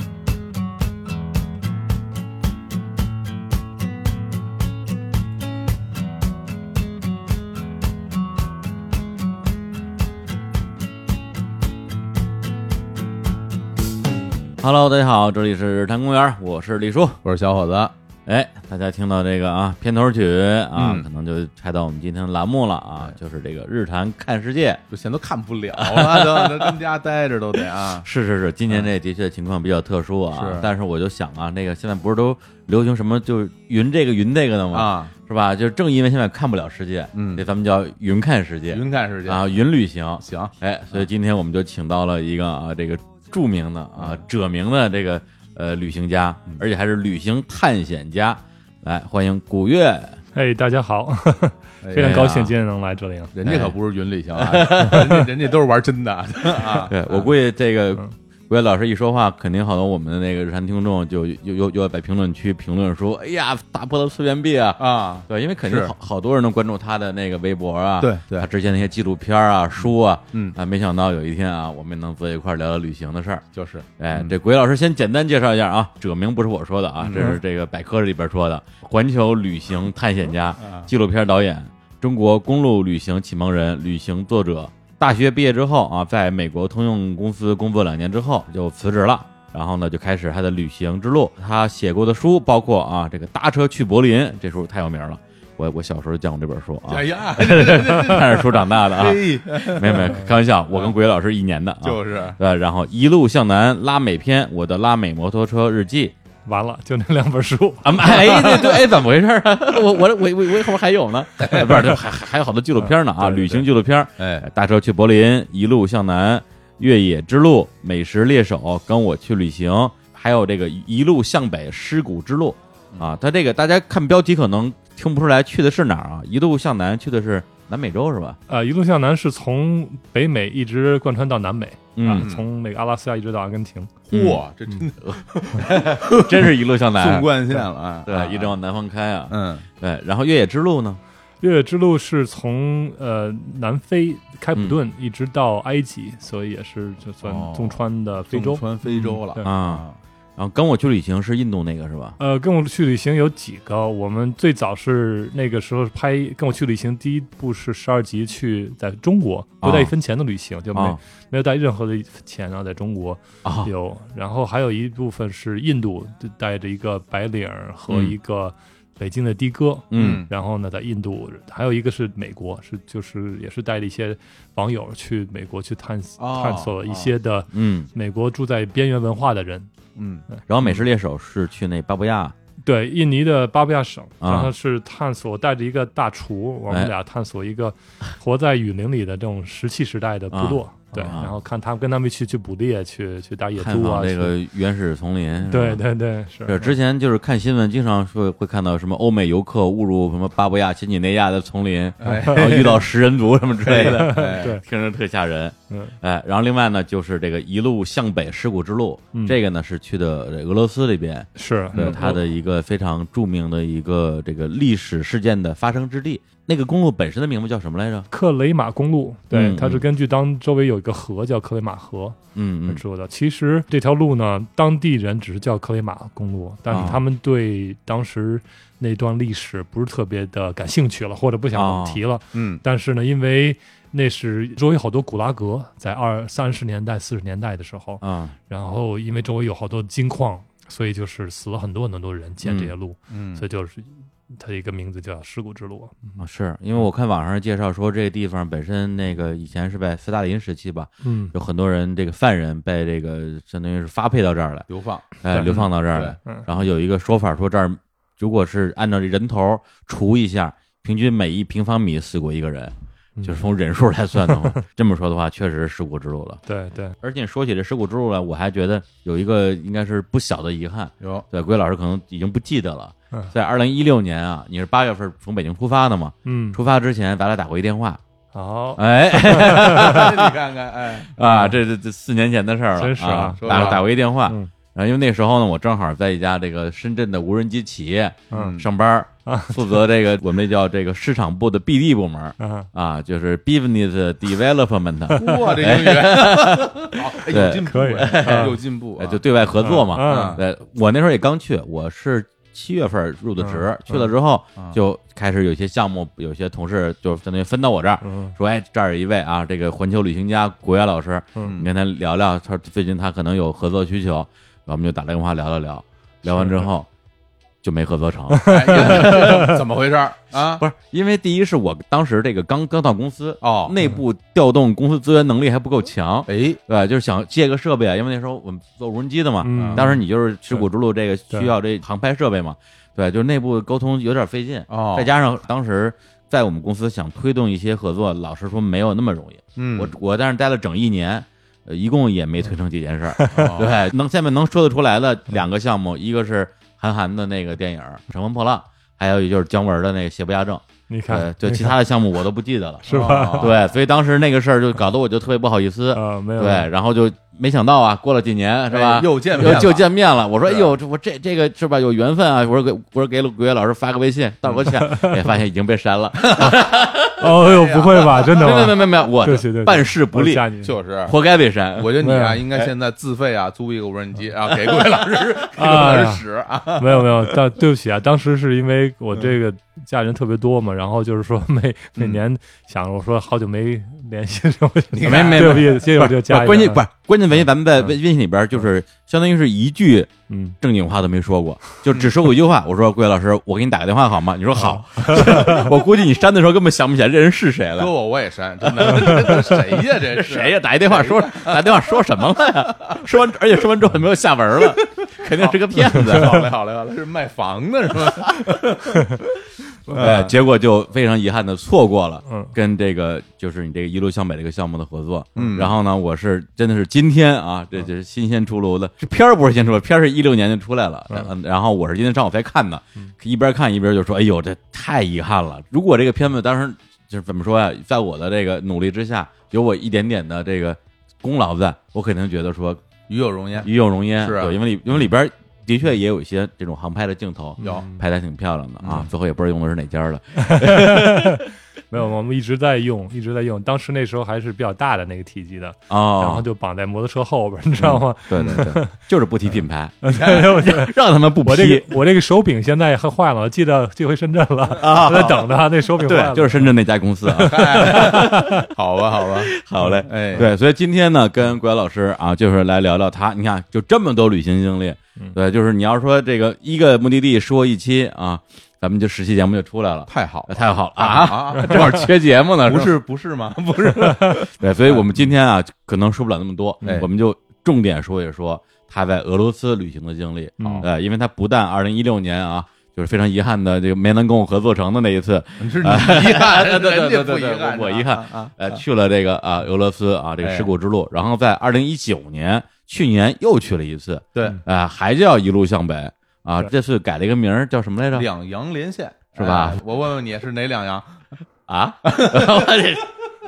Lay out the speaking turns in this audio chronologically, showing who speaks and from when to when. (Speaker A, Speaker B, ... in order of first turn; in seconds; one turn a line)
Speaker A: 14.6-17.2
Speaker B: 17.2-17.9
Speaker A: 18.2-24.8
Speaker B: 20.7-21.1
Speaker B: 24.9-28.1
Speaker A: 25.7-26.8
Speaker A: 28.0-50.2
Speaker B: 30.3-30.7
Speaker B: 34.7-35.1
Speaker B: 37.1-37.5
Speaker B: 38.7-39.5
Speaker B: 40.2-41.0
Speaker B: 44.0-44.2
Speaker C: 50.3-53.3
Speaker B: 51.8-52.2
Speaker A: 52.0-52.5
Speaker B: 53.3-57.3
Speaker A: 53.4-53.7
Speaker A: 54.3-55.1
Speaker A: 56.5-73.4
Speaker B: 64.8-65.9
Speaker B: 68.0-68.5
Speaker B: 69.8-70.5
Speaker B: 73.5-74.4
Speaker A: 74.0-106.1
Speaker B: 77.0-77.4
Speaker B: 80.6-80.9
Speaker B: 96.8-100.1
Speaker C: 100.0-100.3
Speaker B: 101.8-102.4
Speaker C: 106.5-108.7
Speaker A: 107.8-128.4
Speaker B: 111.4-111.7
Speaker C: 112.8-113.5
Speaker B: 113.3-113.6
Speaker B: 114.2-114.4
Speaker C: 128.5-133.9
Speaker A: 131.9-132.3
Speaker B: 132.2-132.5
Speaker B: 134.1-138.6
Speaker A: 134.1-134.4
Speaker A: 135.0-137.3
Speaker A: 138.1-141.0
Speaker B: 139.3-139.7
Speaker C: 141.4-149.5
Speaker B: 147.2-150.0
Speaker A: 149.4-149.8
Speaker A: 150.4-152.2
Speaker C: 152.2-179.7
Speaker A: 159.6-159.9
Speaker A: 160.7-161.0
Speaker A: 163.4-163.7
Speaker A: 167.9-168.1
Speaker A: 169.9-170.2
Speaker B: 169.9-170.3
Speaker B: 176.2-177.1
Speaker A: 177.5-177.9
Speaker B: 179.9-180.2
Speaker C: 180.3-180.8
Speaker A: 180.5-182.3
Speaker C: 182.6-194.3
Speaker A: 184.2-184.5
Speaker A: 190.3-191.3
Speaker A: 193.6-195.8
Speaker C: 195.5-196.7
Speaker A: 196.4-218.1
Speaker B: 202.0-202.9
Speaker C: 202.1-202.4
Speaker B: 203.6-204.5
Speaker C: 203.7-204.6
Speaker C: 205.7-205.9
Speaker C: 211.3-212.2
Speaker B: 211.7-212.0
Speaker C: 218.1-246.2
Speaker A: 219.3-219.8
Speaker A: 222.3-222.8
Speaker A: 226.7-227.0
Speaker A: 231.5-232.0
Speaker B: 232.3-232.6
Speaker A: 238.0-238.3
Speaker A: 242.4-242.7
Speaker B: 243.1-243.4
Speaker A: 246.2-254.7
Speaker C: 251.0-251.3
Speaker B: 254.7-256.2
Speaker A: 255.2-262.7
Speaker C: 255.3-255.7
Speaker C: 263.2-263.4
Speaker A: 263.2-266.4
Speaker C: 264.2-264.6
Speaker C: 266.4-266.9
Speaker A: 267.0-278.0
Speaker B: 271.0-271.2
Speaker C: 276.2-276.6
Speaker C: 278.3-280.0
Speaker A: 278.8-280.3
Speaker B: 279.8-281.1
Speaker A: 281.0-316.9
Speaker C: 281.2-281.6
Speaker C: 282.8-284.5
Speaker B: 283.0-283.8
Speaker C: 288.3-288.6
Speaker B: 288.3-288.7
Speaker C: 289.2-289.8
Speaker C: 292.4-292.7
Speaker B: 295.1-299.2
Speaker C: 297.6-298.6
Speaker C: 299.6-300.4
Speaker B: 300.0-300.4
Speaker B: 303.9-304.8
Speaker C: 308.0-308.3
Speaker C: 316.3-316.7
Speaker A: 317.6-319.2
Speaker C: 318.4-319.6
Speaker B: 318.5-320.6
Speaker A: 320.6-367.2
Speaker B: 323.4-323.8
Speaker B: 326.3-326.6
Speaker C: 329.4-330.0
Speaker B: 329.5-329.8
Speaker B: 334.7-335.1
Speaker B: 339.6-339.9
Speaker C: 343.1-343.5
Speaker B: 343.3-343.7
Speaker C: 350.9-351.8
Speaker C: 352.8-353.5
Speaker B: 352.9-353.6
Speaker C: 355.9-356.7
Speaker B: 358.7-359.8
Speaker B: 360.4-360.7
Speaker C: 364.7-365.2
Speaker B: 366.2-368.3
Speaker C: 367.1-370.7
Speaker A: 368.3-370.4
Speaker B: 370.6-371.1
Speaker A: 371.0-372.7
Speaker B: 371.8-377.3
Speaker C: 372.0-372.4
Speaker A: 374.6-375.2
Speaker C: 375.5-376.2
Speaker C: 376.8-386.9
Speaker B: 384.9-385.8
Speaker A: 385.0-390.1
Speaker C: 390.3-390.6
Speaker A: 390.6-397.9
Speaker C: 394.6-395.6
Speaker B: 397.8-402.0
Speaker A: 398.8-399.4
Speaker A: 400.0-406.5
Speaker B: 404.9-410.4
Speaker A: 409.9-432.8
Speaker C: 412.2-412.5
Speaker B: 415.4-415.8
Speaker B: 433.1-434.6
Speaker A: 433.6-441.4
Speaker C: 437.6-438.0
Speaker B: 437.6-437.9
Speaker B: 438.8-439.1
Speaker C: 440.4-449.0
Speaker A: 445.9-446.4
Speaker A: 447.8-451.9
Speaker B: 448.3-448.7
Speaker C: 450.0-456.7
Speaker B: 450.1-450.4
Speaker A: 454.8-458.5
Speaker C: 457.4-458.7
Speaker B: 457.4-459.5
Speaker A: 459.3-472.9
Speaker C: 459.8-460.4
Speaker B: 460.1-460.5
Speaker B: 470.1-475.0
Speaker C: 474.0-474.4
Speaker A: 474.6-498.3
Speaker B: 476.8-477.1
Speaker C: 480.6-480.9
Speaker B: 480.6-480.9
Speaker B: 485.6-488.8
Speaker B: 490.4-490.7
Speaker B: 494.3-494.6
Speaker B: 498.1-501.3
Speaker A: 499.4-499.8
Speaker A: 501.7-503.1
Speaker B: 502.0-502.9